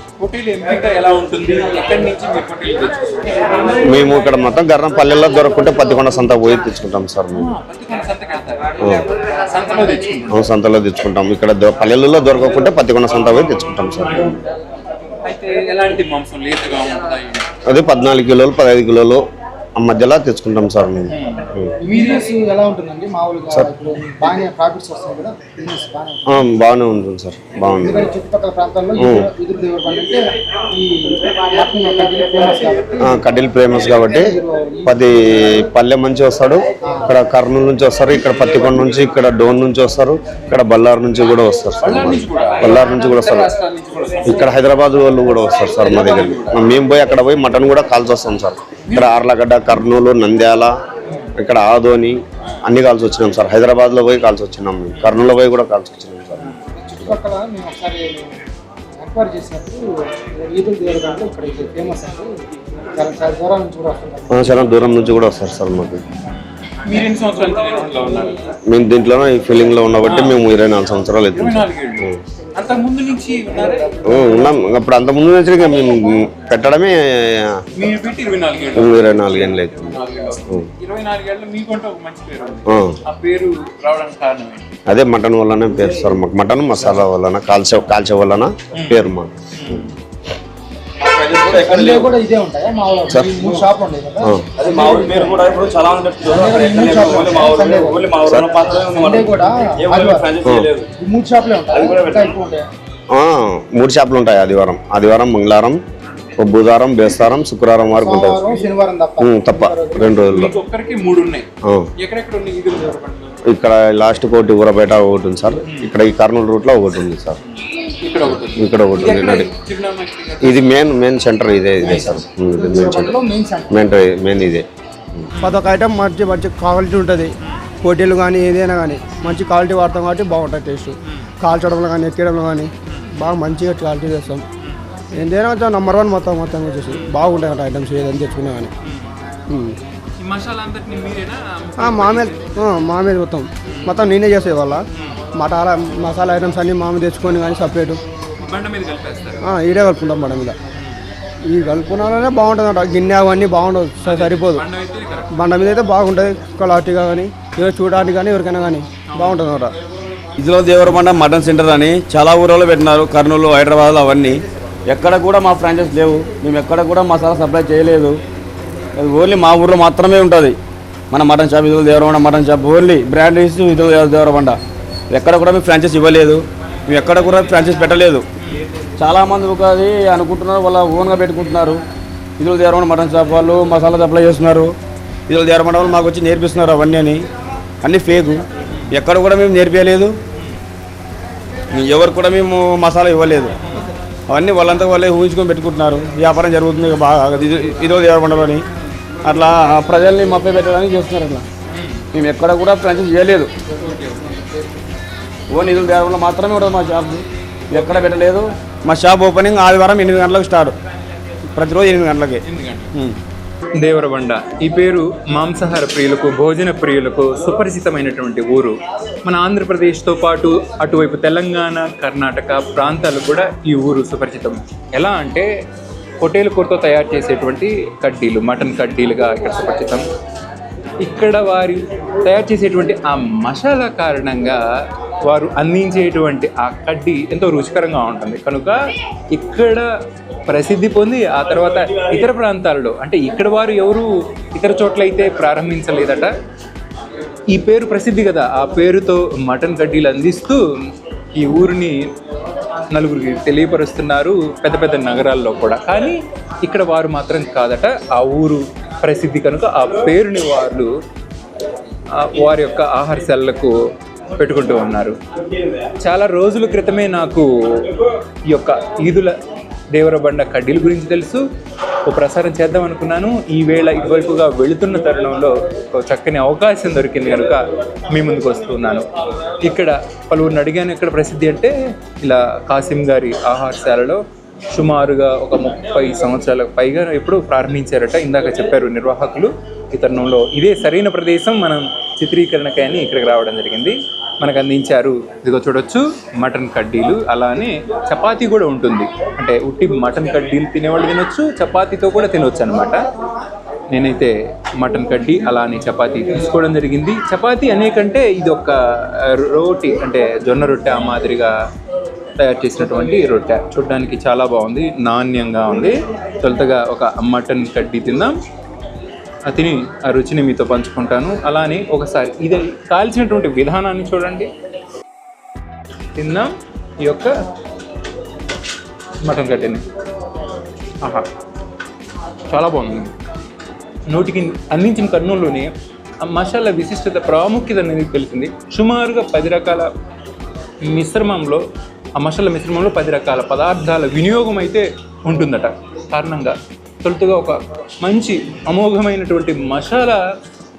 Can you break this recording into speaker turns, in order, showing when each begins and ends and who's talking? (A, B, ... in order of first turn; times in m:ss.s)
0:00.2-0:03.8 A
0:03.9-0:07.4 B
0:07.3-0:10.4 A
0:10.4-0:14.3 B
0:15.2-0:17.5 A
0:17.7-0:19.2 B
0:19.8-0:21.1 B
0:21.1-0:21.5 A
0:21.8-0:26.5 C
0:26.6-0:28.0 B
0:27.8-0:30.2 C
0:30.7-0:33.3 C
0:33.3-0:34.3 B
0:34.2-0:35.0 C
0:35.7-0:36.6 B
0:36.9-0:37.1 C
0:37.1-0:43.5 B
0:41.8-0:44.5 A
0:44.4-0:50.7 B
0:45.7-0:46.6 A
0:48.8-0:49.2 A
0:51.4-0:56.5 B
0:56.7-0:58.4 C
0:59.0-1:02.3 C
1:02.9-1:04.7 C
1:04.4-1:06.0 B
1:06.8-1:08.4 A
1:08.7-1:11.6 B
1:10.0-1:10.4 A
1:11.3-1:14.2 A
1:14.1-1:16.9 B
1:17.8-1:24.7 A
1:18.8-1:19.9 B
1:22.7-1:23.0 B
1:24.9-1:29.8 B
1:28.7-1:29.9 A
1:31.0-1:32.1 D
1:31.5-1:35.4 C
1:34.6-1:39.3 D
1:36.3-1:40.4 C
1:39.8-1:40.9 D
1:41.0-1:42.7 C
1:43.2-1:45.8 B
1:46.4-1:48.4 B
1:48.0-1:50.3 C
1:49.2-1:50.5 B
1:50.3-1:53.4 A
1:53.5-1:57.4 B
1:55.7-1:55.9 A
1:57.7-2:00.7 A
1:58.6-1:59.5 B
2:00.5-2:03.1 B
2:01.8-2:04.0 C
2:04.2-2:04.6 B
2:05.3-2:05.7 A
2:05.4-2:14.4 E
2:12.9-2:13.2 A
2:15.2-2:18.7 E
2:16.9-2:17.2 A
2:18.8-2:19.1 A
2:19.5-2:19.8 E
2:20.2-2:22.6 A
2:21.8-2:28.0 E
2:23.7-2:24.0 A
2:24.9-2:25.2 A
2:28.4-2:29.4 A
2:29.4-2:30.6 E
2:31.4-2:34.6 E
2:34.0-2:35.3 A
2:35.3-2:39.7 E
2:39.1-2:39.5 A
2:40.4-2:48.2 D
2:49.0-2:50.6 D
2:51.1-2:54.6 D
2:55.1-2:58.2 D
2:59.0-3:01.8 D
3:02.4-3:04.7 D
3:05.3-3:07.2 D
3:07.8-3:10.2 D
3:11.7-3:13.5 D
3:13.6-3:13.9 A
3:14.3-3:18.6 D
3:19.2-3:21.5 D
3:21.7-3:22.0 A
3:22.1-3:23.5 D
3:23.8-3:24.4 A
3:25.5-3:30.8 D
3:31.5-3:32.4 D
3:32.4-3:32.9 A
3:33.8-3:45.5 A
3:46.2-3:50.1 A
3:51.0-3:54.6 A
3:55.2-3:58.8 A
3:59.3-3:59.9 A
4:00.5-4:06.3 A
4:07.5-4:10.6 A
4:11.4-4:12.0 A
4:12.9-4:20.9 A
4:22.1-4:23.7 A
4:24.4-4:25.2 A
4:26.0-4:28.0 A
4:28.5-4:29.4 A
4:29.9-4:31.4 A
4:32.1-4:39.1 A
4:39.6-5:03.0 A
5:03.9-5:11.5 A
5:12.4-5:18.4 A
5:19.5-5:24.5 A
5:26.2-5:27.3 A
5:29.2-5:29.8 A
5:32.5-5:33.1 A
5:34.1-5:39.9 A
5:40.8-5:41.6 A
5:42.2-5:50.2 A